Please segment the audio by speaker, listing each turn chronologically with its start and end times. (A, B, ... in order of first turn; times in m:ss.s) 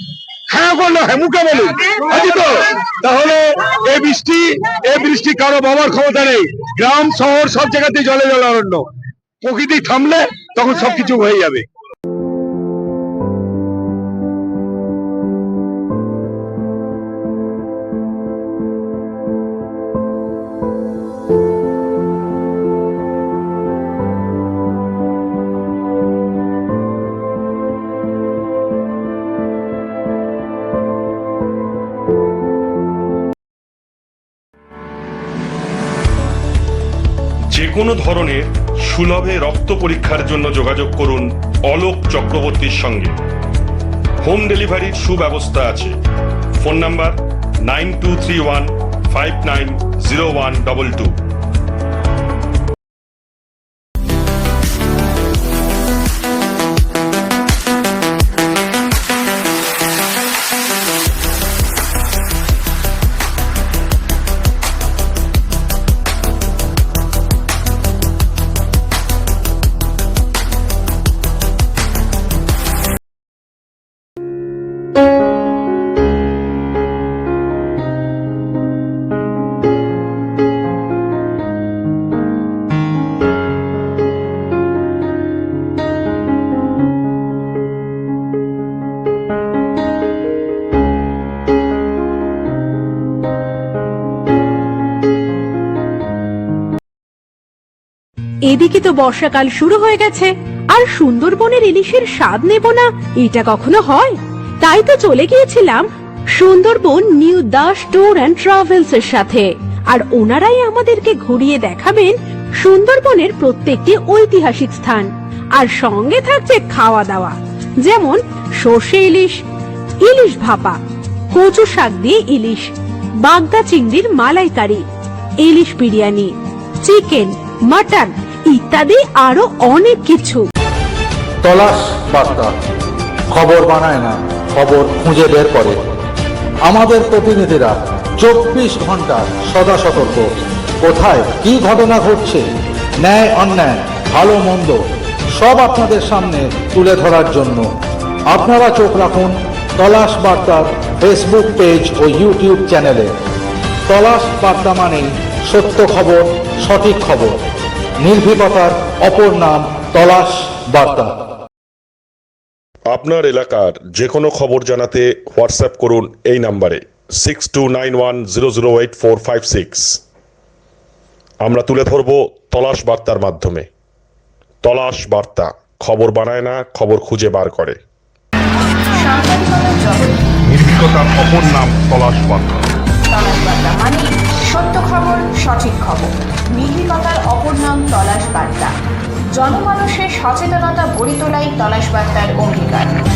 0:00.5-0:08.8 A
0:09.4-0:11.6 A
0:37.5-0:43.1 B
0:44.2-0:45.9 B
0:46.6-0:51.1 B
1:38.5-1:59.4 C
2:00.0-2:00.8 C
2:01.3-2:02.7 C
2:03.2-2:04.8 C
2:05.4-2:10.4 C
2:11.4-2:12.5 D
2:13.3-2:15.8 D
2:16.6-2:20.2 D
2:20.8-2:22.4 D
2:23.0-2:24.8 D
2:25.3-2:27.7 D
2:28.3-2:33.1 D
2:33.9-2:37.3 D
2:38.0-2:41.1 D
2:42.9-2:50.0 B
2:51.4-2:53.7 B
2:54.6-2:57.8 B
2:58.9-3:00.2 E
3:00.8-3:02.6 B
3:03.1-3:08.7 E
3:09.4-3:13.0 E